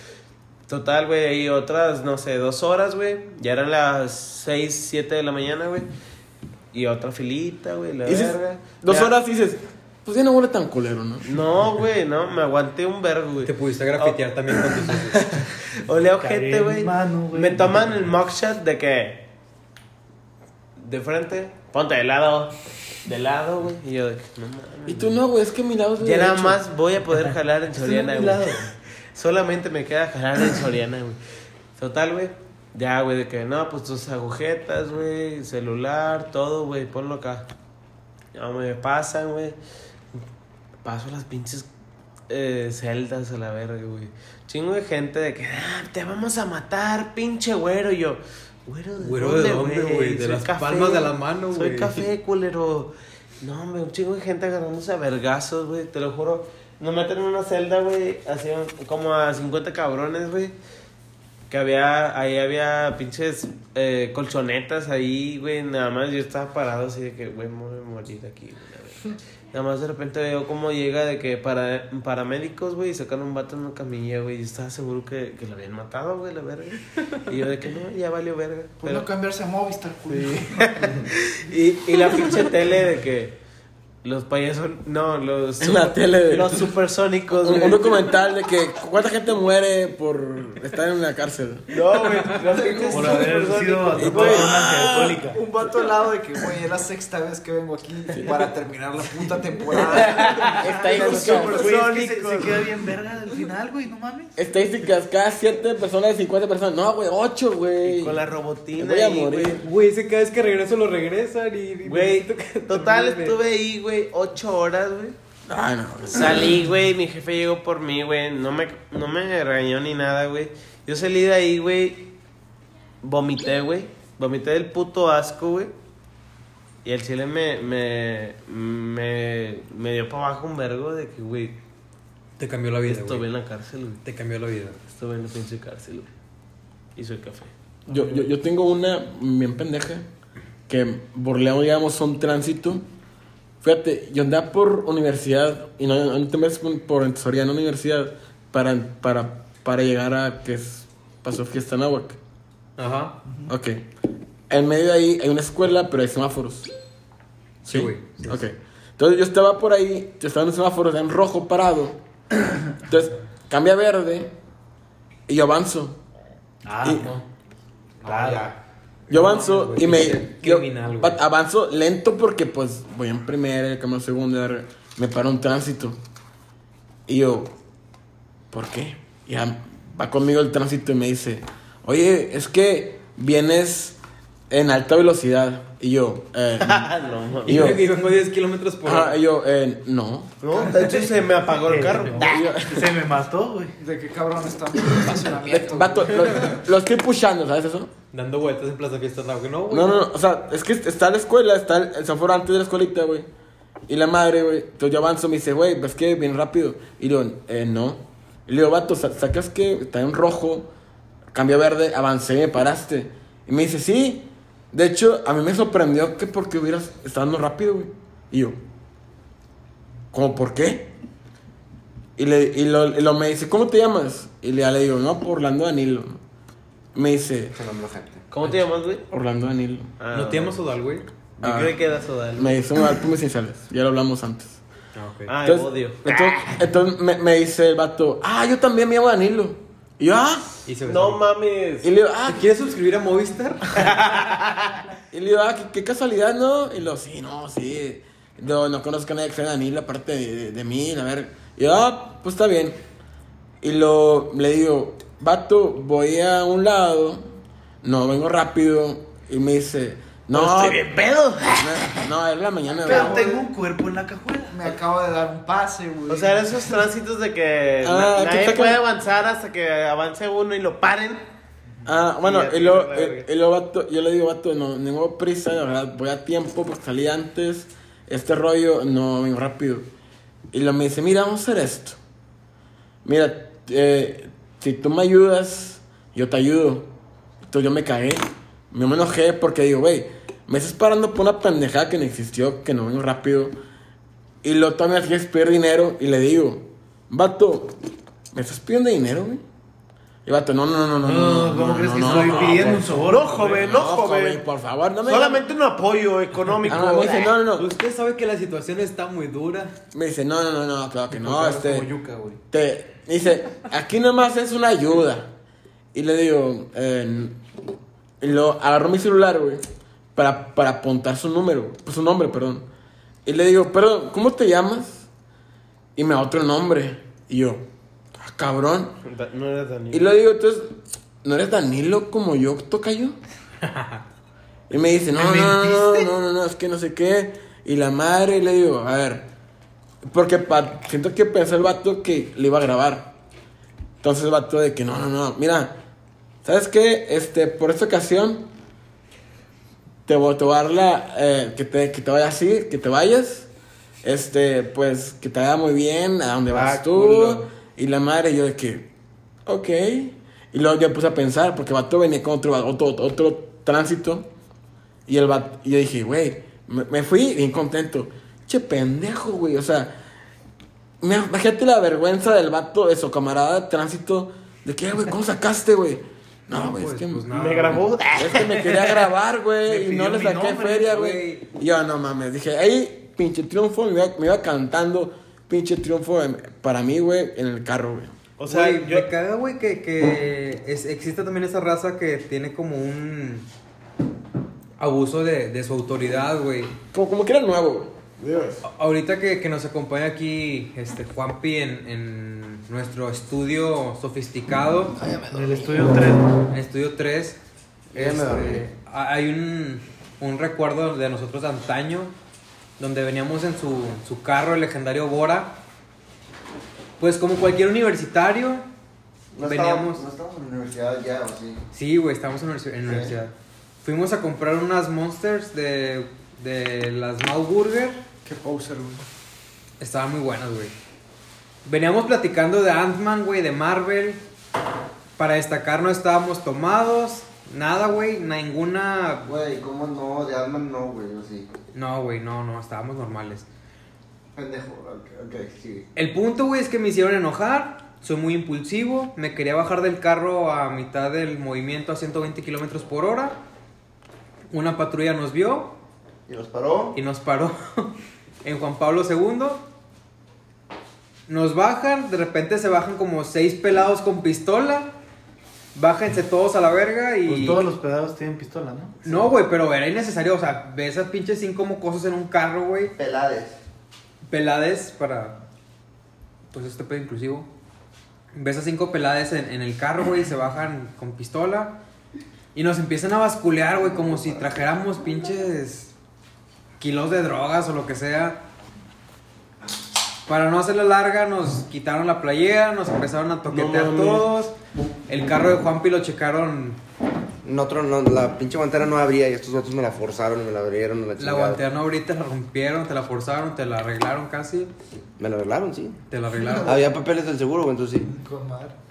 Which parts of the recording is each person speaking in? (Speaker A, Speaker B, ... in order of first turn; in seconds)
Speaker A: 0.7-5.9, 6.7-9.1, 11.2-19.3, 20.8-25.2, 26.0-31.2, 31.8-37.5, 38.4-39.6, 40.8-41.7, 42.3-60.5, 61.5-79.1, 80.1-83.4, 84.0-88.0, 91.7-95.1, 99.9-102.7, 107.8-109.6, 111.9-115.2, 116.1-122.1, 123.0-125.7, 126.8-131.6, 132.8-134.0, 134.9-136.1, 137.0-137.5, 186.6-187.8, 190.4-192.6, 228.3-229.1, 230.0-230.6, 231.4-232.6, 235.3-236.6, 240.9-241.9, 243.7-244.8, 260.3-262.1, 266.1-271.3, 272.2-273.3, 302.1-304.4, 305.0-307.4, 329.1-330.1, 377.3-379.1, 388.4-389.1, 493.5-494.5
Speaker B: 8.1-11.3, 24.9-26.6, 85.6-86.7, 87.4-91.7, 93.9-95.2, 100.2-101.7, 104.4-108.2, 108.8-109.6, 115.5-116.7, 137.9-140.1, 140.7-142.8, 143.6-152.2, 153.5-153.9, 154.5-156.7, 157.6-162.0, 162.8-164.3, 165.3-166.0, 166.8-167.2, 169.1-176.0, 177.1-177.5, 178.5-184.0, 184.5-186.9, 187.4-187.8, 188.8-190.3, 192.2-192.9, 195.4-197.9, 199.7-203.3, 203.9-210.7, 211.3-218.6, 220.1-220.9, 222.2-226.2, 226.9-227.6, 229.1-229.9, 231.4-231.8, 232.4-234.6, 235.4-240.6, 241.8-242.5, 245.1-252.8, 253.6-257.3, 257.8-260.8, 261.6-263.2, 267.8-268.8, 271.9-279.9, 280.5-282.0, 283.1-286.9, 287.5-293.6, 294.4-297.8, 298.3-299.4, 300.2-305.5, 306.7-307.7, 309.9-311.9, 312.5-315.3, 315.9-317.4, 318.2-319.6, 320.1-322.7, 323.2-325.1, 326.0-327.6, 328.2-329.0, 329.9-333.2, 334.7-339.3, 340.1-343.1, 344.0-345.8, 346.4-348.5, 350.1-353.5, 354.0-358.9, 359.5-364.3, 365.1-369.9, 371.0-377.3, 378.1-388.1, 396.9-398.6
Speaker C: 13.4-15.3, 49.0-52.0, 109.6-113.4, 132.4-133.3, 134.0-134.8, 152.8-153.2, 157.7-158.4, 169.1-171.2, 187.5-189.2, 198.1-200.0, 230.1-231.1, 234.9-235.3, 240.7-241.2, 242.3-244.0, 307.6-309.8, 333.7-334.0, 376.5-377.8, 380.3-381.5, 388.5-393.5, 394.8-396.8, 398.6-405.0, 406.4-407.4, 407.9-412.1, 412.8-415.6, 417.0-418.7, 419.4-420.1, 421.7-428.1, 429.8-430.7, 431.6-434.2, 435.2-439.3, 441.7-443.5, 446.0-453.4, 454.5-455.8, 456.9-459.7, 461.3-464.9, 465.8-467.6, 469.0-472.9, 474.3-475.4, 476.5-477.5, 478.3-481.8, 482.5-485.9, 486.8-488.4, 490.3-494.6, 495.1-496.8, 501.2-504.7, 506.1-506.9
Speaker D: 16.2-18.0, 27.8-28.7, 92.9-95.4, 100.9-104.4, 166.7-167.2, 168.0-168.5, 191.6-193.8, 262.9-264.7, 301.0-303.6, 311.1-312.4, 356.5-357.4, 379.7-380.6, 405.3-406.4, 467.3-469.0
Speaker E: 78.8-81.0, 92.4-93.3, 94.8-101.7, 193.8-196.6, 262.9-263.5, 264.5-266.5, 428.2-429.0, 506.4-506.9, 508.1-508.8
Speaker F: 168.0-168.4, 227.6-228.2, 405.0-405.8, 407.9-408.6, 419.3-421.6, 422.9-423.1, 439.3-441.5, 444.4-445.9, 456.3-457.0, 472.9-473.6, 497.4-501.6, 505.2-506.0, 506.6-508.1